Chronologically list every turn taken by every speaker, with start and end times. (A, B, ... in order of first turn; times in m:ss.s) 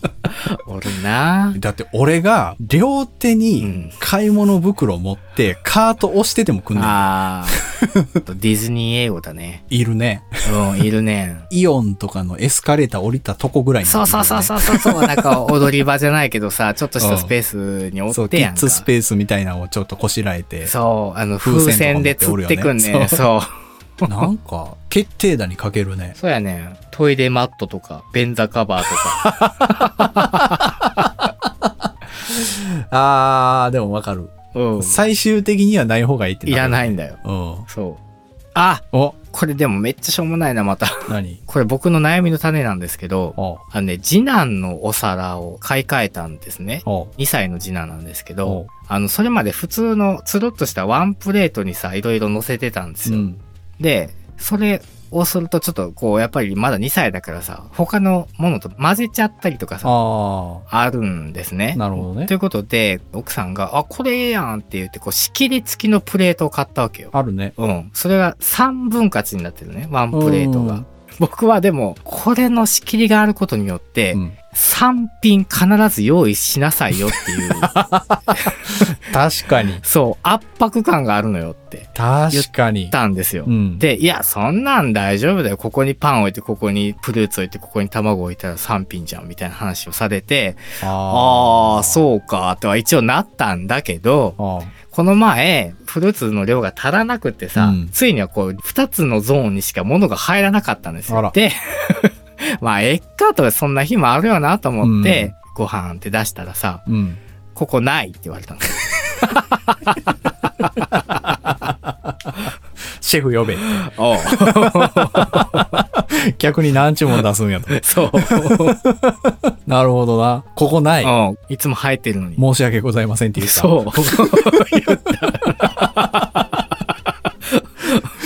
0:00.5-0:01.6 A
0:01.5-0:08.2 B
0:03.6-0:04.0 A
0:06.8-0:07.6 A
0:08.2-0:09.6 A
0:09.7-0:10.8 B
0:10.4-0:11.5 A
0:11.5-0:15.4 B
0:13.8-0:18.9 A
0:17.0-0:17.3 B
0:18.1-0:20.7 B
0:20.6-0:23.5 A
0:21.4-0:23.2 B
0:24.1-0:26.2 B
0:26.2-0:30.7 A
0:29.2-0:37.7 B
0:34.5-0:35.0 A
0:36.5-0:38.0 A
0:38.6-0:53.3 A
0:41.1-0:41.4 B
0:43.4-0:43.6 B
0:46.8-0:47.1 B
0:48.4-0:48.7 B
0:53.1-0:53.4 B
0:53.8-1:00.0 A
0:59.8-1:00.6 B
1:00.7-1:17.8 A
1:01.8-1:02.3 B
1:07.1-1:07.5 B
1:10.1-1:10.9 B
1:17.6-1:19.8 B
1:18.3-1:18.8 A
1:19.8-1:46.8 A
1:22.0-1:23.0 B
1:23.5-1:23.8 B
1:30.8-1:32.0 B
1:34.4-1:34.7 B
1:37.6-1:37.9 B
1:41.1-1:41.4 B
1:44.8-1:45.3 B
1:46.9-1:47.2 B
1:47.5-1:50.0 A
1:50.9-2:01.1 B
1:53.6-1:55.8 A
1:57.7-1:58.8 A
2:01.0-2:02.4 A
2:02.4-2:04.7 B
2:03.4-2:06.6 A
2:05.5-2:06.3 B
2:07.5-2:08.1 A